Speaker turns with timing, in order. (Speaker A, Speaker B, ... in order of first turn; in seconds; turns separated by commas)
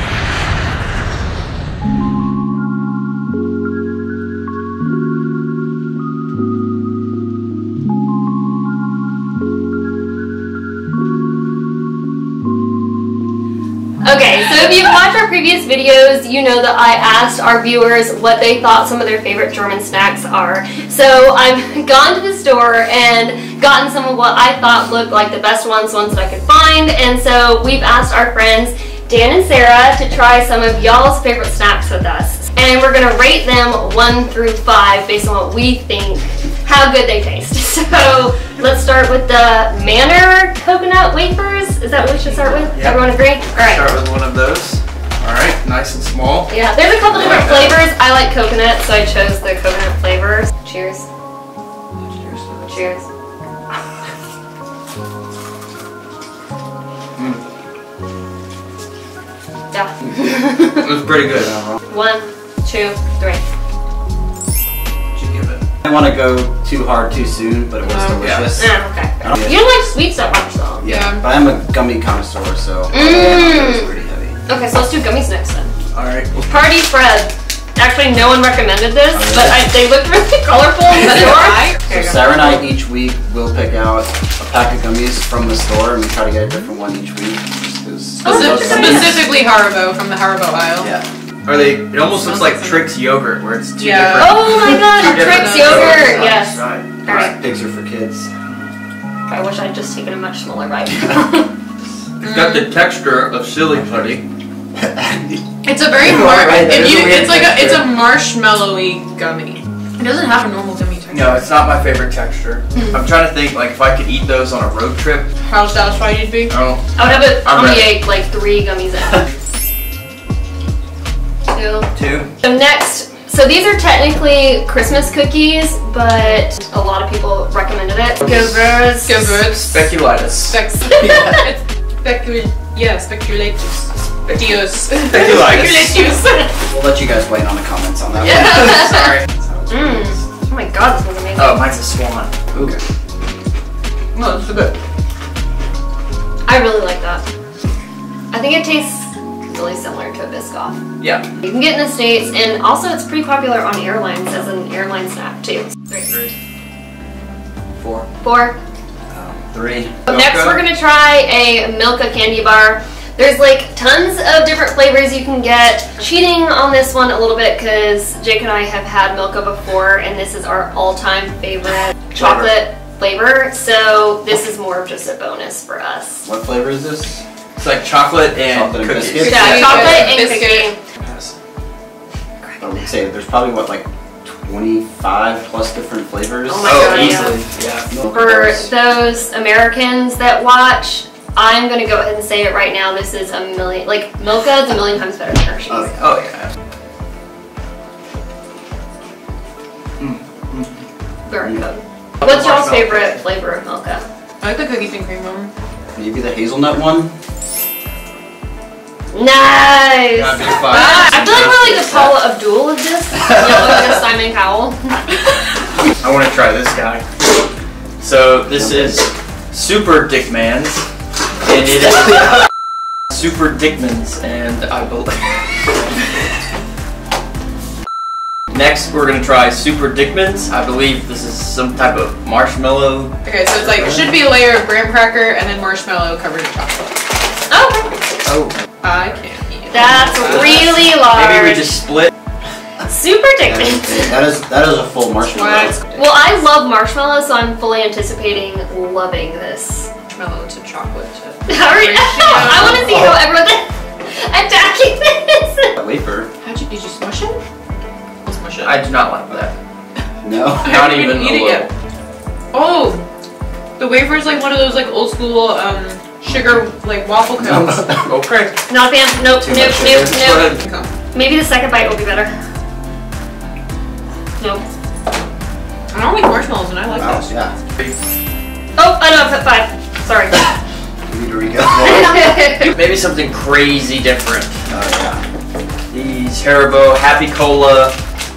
Speaker A: 14.0-43.9, Speaker B: 42.7-46.5, Speaker A: 46.5-51.0, Speaker B: 47.1-47.8, Speaker B: 52.0-52.8, Speaker A: 52.7-53.0, Speaker B: 57.1-57.4, Speaker A: 59.7-60.9, Speaker B: 60.8-61.5, Speaker C: 61.4-61.8, Speaker A: 61.9-63.4, Speaker B: 65.1-65.6, Speaker C: 65.8-69.6, Speaker D: 67.8-68.2, Speaker B: 68.2-68.6, Speaker A: 68.6-70.9, Speaker C: 70.8-74.4, Speaker D: 70.8-71.2, Speaker A: 72.9-73.9, Speaker A: 74.5-75.7, Speaker B: 75.9-76.5, Speaker A: 76.5-82.2, Speaker C: 79.1-79.7, Speaker D: 81.0-81.8, Speaker C: 81.8-89.3, Speaker A: 88.2-89.2, Speaker D: 88.2-90.9, Speaker C: 90.8-91.1, Speaker B: 91.4-97.0, Speaker D: 92.0-92.9, Speaker D: 93.8-96.2, Speaker A: 94.2-97.3, Speaker C: 97.0-98.3, Speaker A: 99.3-101.5, Speaker B: 102.2-104.2, Speaker C: 104.8-105.4, Speaker D: 105.6-111.5, Speaker C: 106.0-107.3, Speaker B: 106.0-107.9, Speaker B: 111.1-115.3, Speaker D: 115.4-116.5, Speaker B: 116.5-118.0, Speaker A: 117.0-119.3, Speaker A: 121.5-129.5, Speaker B: 121.9-122.3, Speaker D: 129.0-129.9, Speaker B: 129.5-130.6, Speaker D: 130.5-136.7, Speaker C: 131.0-131.3, Speaker B: 134.3-136.2, Speaker C: 136.7-140.2, Speaker D: 138.3-139.0, Speaker A: 138.6-139.0, Speaker B: 138.8-139.2, Speaker A: 139.7-141.8, Speaker B: 141.3-142.8, Speaker B: 144.1-144.7, Speaker A: 146.4-147.2, Speaker A: 148.3-150.8, Speaker B: 151.0-151.2, Speaker A: 151.4-156.1, Speaker B: 156.1-156.3, Speaker B: 157.8-158.1, Speaker A: 158.2-158.6, Speaker C: 159.1-160.0, Speaker B: 160.1-160.7, Speaker A: 160.1-176.2, Speaker B: 172.1-172.6, Speaker C: 176.2-177.2, Speaker B: 177.6-180.3, Speaker C: 178.4-180.1, Speaker A: 179.2-180.8, Speaker D: 179.3-180.7, Speaker B: 181.0-181.3, Speaker A: 182.4-182.9, Speaker C: 182.6-187.1, Speaker A: 186.5-187.4, Speaker B: 186.6-187.9, Speaker C: 187.9-188.7, Speaker A: 188.1-196.1, Speaker B: 196.0-196.5, Speaker B: 200.0-200.8, Speaker A: 201.2-204.1, Speaker C: 201.4-201.7, Speaker B: 202.2-203.1, Speaker D: 204.4-205.5, Speaker C: 205.9-207.1, Speaker A: 209.1-215.2, Speaker B: 210.1-212.1, Speaker D: 210.7-211.1, Speaker B: 216.0-217.0, Speaker B: 218.0-220.8, Speaker C: 218.5-219.0, Speaker B: 221.4-222.1, Speaker B: 223.1-225.6, Speaker B: 228.5-233.1, Speaker D: 233.2-237.0, Speaker A: 237.5-237.9, Speaker B: 238.2-238.5, Speaker D: 238.8-240.8, Speaker A: 239.7-241.8, Speaker B: 240.2-242.1, Speaker A: 242.9-244.1, Speaker C: 243.4-246.2, Speaker D: 245.3-245.7, Speaker A: 245.7-249.9, Speaker D: 250.1-253.1, Speaker A: 251.5-255.7, Speaker C: 255.8-256.3, Speaker D: 256.4-257.4, Speaker D: 258.2-258.8, Speaker B: 258.6-259.5, Speaker C: 260.2-260.9, Speaker D: 260.6-261.7, Speaker B: 260.6-261.7, Speaker D: 262.5-263.1, Speaker D: 263.8-267.9, Speaker C: 267.3-268.1, Speaker B: 268.1-268.6, Speaker A: 268.7-270.5, Speaker C: 269.4-270.2, Speaker B: 270.1-270.6, Speaker D: 270.6-270.9, Speaker A: 271.1-272.3, Speaker D: 275.9-277.3, Speaker C: 276.9-277.5, Speaker A: 278.8-280.4, Speaker C: 281.1-282.3, Speaker A: 281.8-282.7, Speaker B: 282.6-284.6, Speaker C: 284.7-285.2, Speaker B: 285.9-288.0